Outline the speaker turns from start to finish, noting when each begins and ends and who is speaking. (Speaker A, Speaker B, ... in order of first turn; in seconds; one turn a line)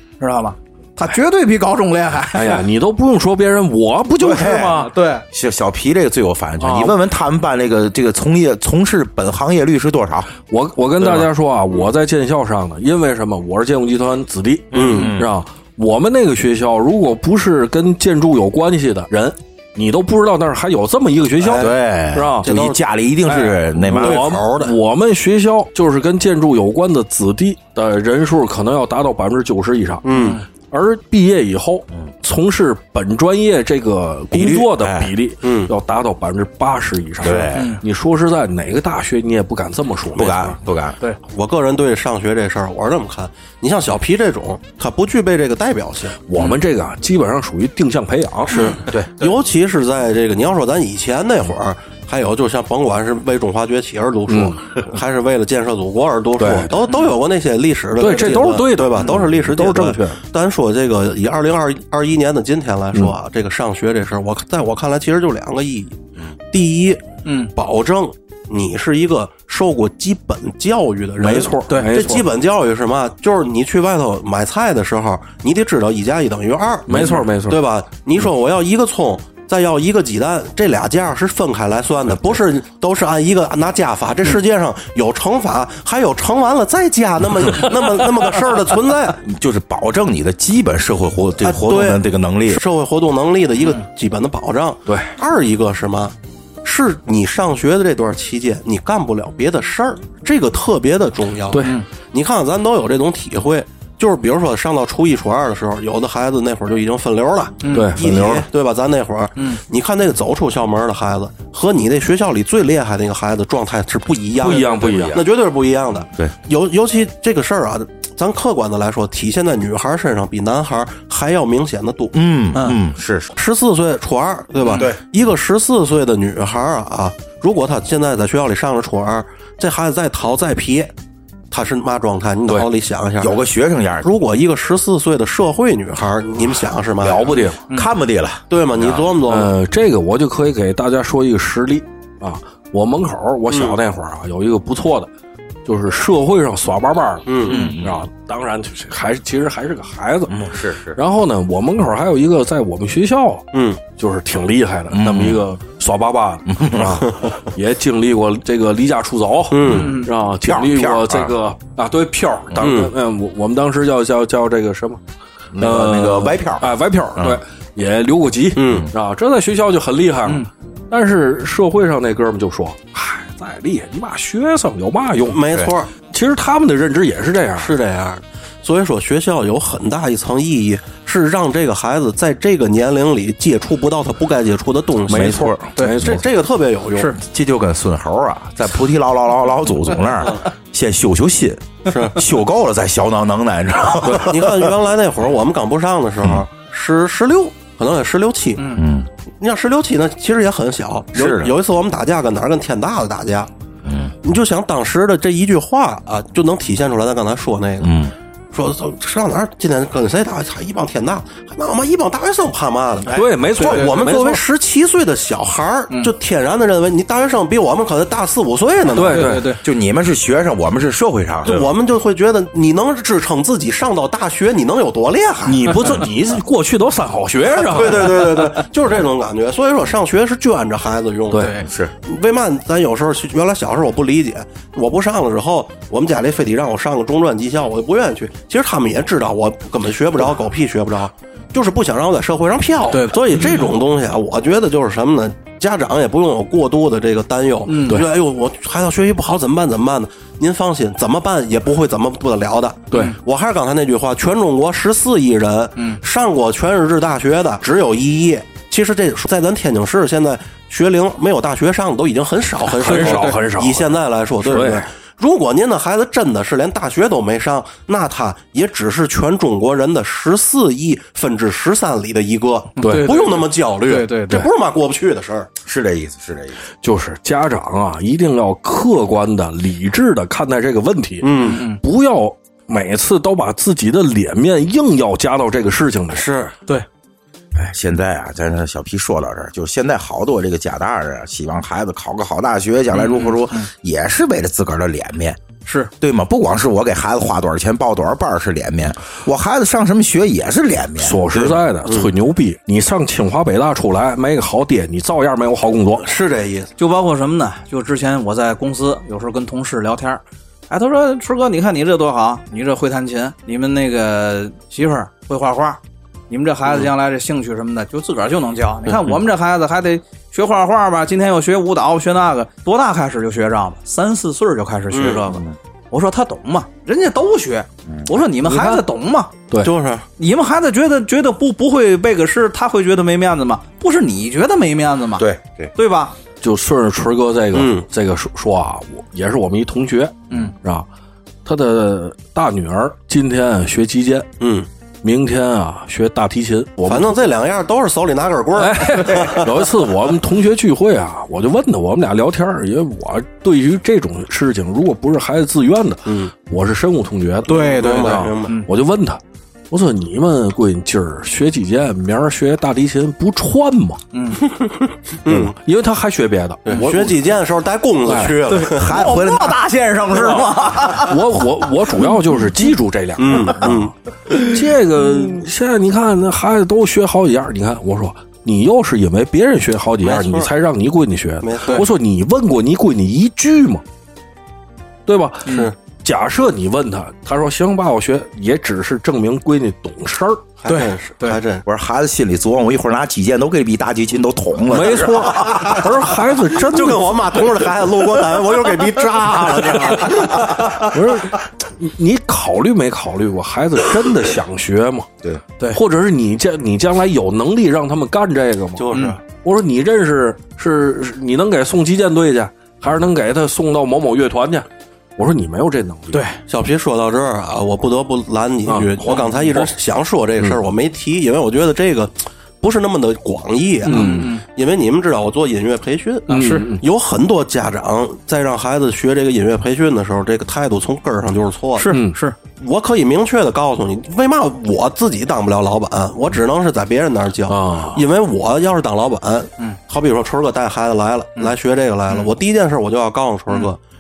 Speaker A: 0.2-2.6
Speaker B: 2.3-4.9
Speaker C: 4.2-10.3
Speaker A: 4.7-5.2
Speaker B: 6.6-6.9
Speaker B: 10.5-22.5
Speaker C: 14.7-15.3
Speaker D: 14.7-15.1
Speaker D: 21.5-22.8
Speaker C: 21.5-24.4
Speaker B: 23.2-40.6
Speaker D: 23.9-24.8
Speaker D: 30.0-30.4
Speaker A: 30.1-30.4
Speaker C: 34.3-35.1
Speaker D: 35.4-35.7
Speaker C: 37.2-37.8
Speaker A: 37.5-37.8
Speaker C: 40.1-41.0
Speaker D: 41.2-46.2
Speaker B: 46.3-48.5
Speaker D: 48.5-66.0
Speaker A: 48.5-49.3
Speaker B: 54.3-54.6
Speaker B: 56.4-56.8
Speaker B: 58.0-60.2
Speaker D: 66.5-67.0
Speaker A: 67.2-67.5
Speaker D: 67.5-89.2
Speaker B: 71.2-72.3
Speaker A: 71.7-71.9
Speaker B: 76.9-77.6
Speaker C: 89.2-92.6
Speaker D: 91.4-122.1
Speaker B: 94.9-95.1
Speaker B: 101.5-101.8
Speaker A: 107.6-107.9
Speaker B: 107.7-108.4
Speaker B: 114.4-115.2
Speaker C: 122.1-123.3
Speaker D: 123.3-130.9
Speaker A: 124.6-124.9
Speaker D: 131.5-133.3
Speaker C: 133.2-134.1
Speaker D: 134.0-137.4
Speaker B: 137.0-137.6
Speaker C: 137.7-138.4
Speaker D: 138.5-139.5
Speaker B: 139.3-145.1
Speaker D: 143.5-143.8
Speaker B: 145.6-165.0
Speaker D: 147.2-147.6
Speaker C: 147.4-148.0
Speaker C: 150.3-151.0
Speaker D: 153.5-153.8
Speaker C: 154.9-155.4
Speaker C: 156.5-157.2
Speaker D: 159.5-159.9
Speaker C: 159.6-161.3
Speaker A: 159.7-160.1
Speaker D: 162.6-162.9
Speaker C: 165.5-167.4
Speaker B: 165.6-175.4
Speaker D: 168.6-168.9
Speaker D: 175.3-175.9
Speaker B: 176.0-177.7
Speaker D: 177.6-187.2
Speaker B: 185.1-186.2
Speaker C: 185.1-186.2
Speaker C: 187.2-194.8
Speaker D: 191.9-192.2
Speaker D: 194.0-198.8
Speaker A: 198.6-198.8
Speaker C: 198.8-199.1
Speaker D: 199.4-203.5
Speaker C: 201.1-201.5
Speaker C: 203.8-204.2
Speaker D: 204.2-208.0
Speaker C: 207.8-208.1
Speaker D: 208.5-219.4
Speaker B: 213.1-214.4
Speaker A: 213.6-214.0
Speaker B: 218.9-219.5
Speaker A: 219.0-219.6
Speaker C: 219.3-221.7
Speaker D: 221.4-225.9
Speaker B: 225.4-228.5
Speaker D: 227.5-275.5
Speaker B: 231.3-231.6
Speaker A: 231.4-231.6
Speaker C: 231.6-231.9
Speaker A: 242.9-243.2
Speaker A: 247.7-248.0
Speaker A: 252.9-253.2
Speaker B: 262.7-264.9
Speaker A: 262.8-263.4
Speaker A: 272.8-274.5
Speaker B: 272.8-273.1
Speaker C: 275.6-276.6
Speaker B: 276.8-286.3
Speaker D: 281.2-281.6
Speaker A: 281.4-281.8
Speaker D: 286.1-286.5
Speaker C: 287.6-295.4
Speaker A: 292.9-293.7
Speaker A: 295.6-295.9
Speaker C: 296.0-301.4
Speaker B: 301.0-306.1
Speaker D: 301.3-302.1
Speaker D: 306.0-306.7
Speaker A: 306.8-329.3
Speaker D: 324.9-325.2
Speaker B: 328.4-328.8
Speaker D: 329.6-330.1
Speaker A: 330.2-336.1
Speaker C: 335.2-335.7
Speaker B: 336.4-340.9
Speaker D: 337.5-337.9
Speaker B: 341.4-344.3
Speaker D: 344.4-344.7
Speaker B: 345.0-347.2
Speaker D: 346.9-349.7
Speaker B: 348.6-364.0
Speaker D: 356.1-356.3
Speaker A: 357.5-358.7
Speaker D: 357.5-358.6
Speaker A: 364.1-364.4
Speaker D: 364.4-365.5
Speaker B: 365.3-367.2
Speaker D: 366.6-368.9
Speaker B: 368.0-368.4
Speaker A: 368.5-371.3
Speaker C: 368.7-369.6
Speaker B: 370.1-383.8
Speaker D: 373.2-373.9
Speaker D: 380.0-380.5
Speaker D: 381.4-381.8
Speaker B: 385.1-390.4
Speaker D: 385.5-385.7
Speaker D: 390.6-391.6
Speaker A: 390.6-391.4
Speaker C: 391.6-395.8
Speaker B: 394.7-397.1
Speaker D: 395.2-395.9
Speaker D: 396.6-400.9
Speaker B: 400.8-405.1
Speaker B: 405.7-414.6
Speaker D: 408.8-409.2
Speaker B: 415.2-416.3
Speaker A: 416.1-416.4
Speaker D: 416.5-431.9
Speaker B: 418.7-419.7
Speaker A: 419.1-419.4
Speaker A: 423.8-424.4
Speaker B: 423.9-424.3
Speaker A: 426.3-426.7
Speaker B: 426.3-426.8
Speaker A: 431.7-432.4
Speaker B: 431.9-432.1
Speaker D: 432.6-443.8
Speaker B: 437.5-438.0